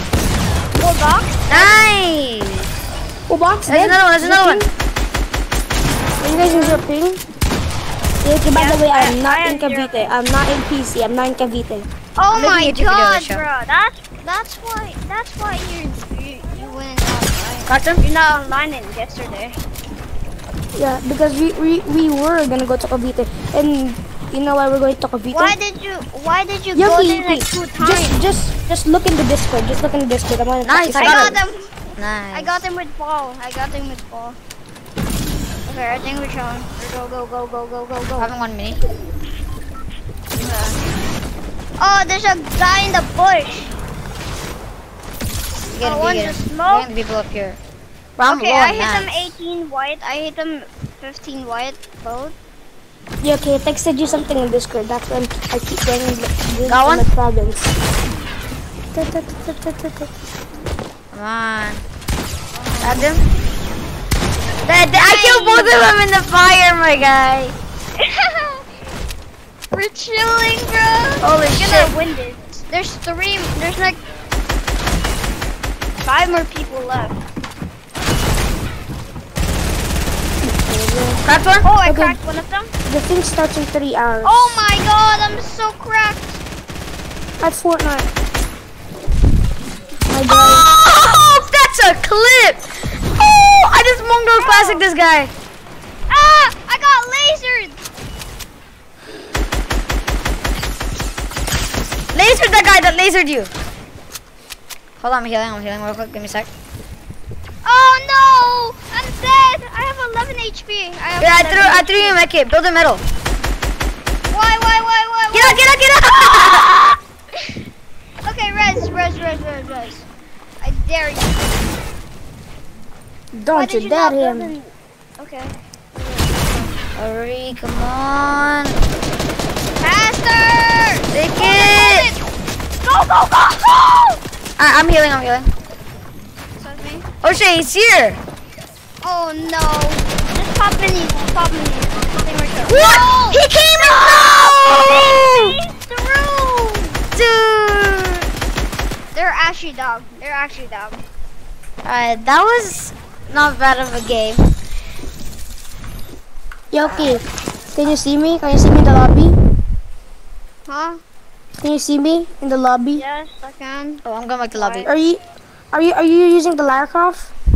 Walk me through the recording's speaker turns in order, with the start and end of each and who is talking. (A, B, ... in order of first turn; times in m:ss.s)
0:00.8-0:01.7 A
0:01.5-0:02.7 B
0:03.3-0:04.7 C
0:03.7-0:04.7 B
0:06.2-0:07.2 C
0:06.2-0:06.8 A
0:08.2-0:11.9 C
0:08.5-0:10.1 A
0:12.2-0:19.6 A
0:12.3-0:13.4 B
0:17.7-0:18.0 B
0:20.7-0:25.6 C
0:25.3-0:28.2 A
0:26.7-0:31.3 C
0:30.6-0:31.4 B
0:31.0-0:31.7 A
0:32.0-0:32.6 B
0:32.3-0:34.4 A
0:35.7-0:38.3 A
0:38.2-0:38.8 B
0:40.4-0:40.8 A
0:41.8-0:43.8 A
0:45.7-0:47.6 B
0:45.8-0:46.9 A
0:48.2-0:49.4 B
0:48.3-0:52.4 A
0:53.2-0:57.7 C
0:56.6-0:57.1 B
0:59.0-1:00.1 C
1:01.1-1:01.8 B
1:02.5-1:03.0 A
1:02.8-1:03.3 B
1:04.6-1:07.6 B
1:04.9-1:05.8 A
1:08.0-1:08.6 A
1:09.7-1:14.0 A
1:11.2-1:11.9 B
1:16.0-1:17.2 A
1:20.4-1:21.2 C
1:21.2-1:21.7 B
1:21.6-1:22.7 A
1:21.8-1:22.2 C
1:22.9-1:24.5 C
1:24.2-1:26.4 A
1:27.4-1:28.1 C
1:30.1-1:30.7 C
1:30.3-1:35.3 B
1:34.4-1:34.8 A
1:36.1-1:37.8 A
1:42.1-1:43.5 B
1:45.0-1:46.5 B
1:47.6-1:52.2 A
1:51.2-1:53.0 B
1:54.3-1:55.6 A
1:55.3-1:56.9 B
1:58.2-2:00.1 A
2:00.6-2:01.5 A
2:03.3-2:04.5 C
2:03.5-2:06.8 A
2:07.0-2:08.8 B
2:09.8-2:12.3 A
2:11.1-2:12.1 B
2:12.8-2:14.2 A
2:14.6-2:15.5 B
2:16.6-2:17.1 A
2:17.2-2:18.2 B
2:19.0-2:27.0 A
2:22.7-2:25.6 B
2:27.2-2:28.3 B
2:29.1-2:31.0 A
2:31.8-2:34.4 B
2:36.7-2:39.4 C
2:36.8-2:37.2 A
2:40.7-2:41.0 A
2:41.6-2:43.0 C
2:42.9-2:44.0 A
2:44.0-2:44.9 B
2:44.5-2:44.9 A
2:44.9-2:45.2 C
2:45.7-2:47.3 C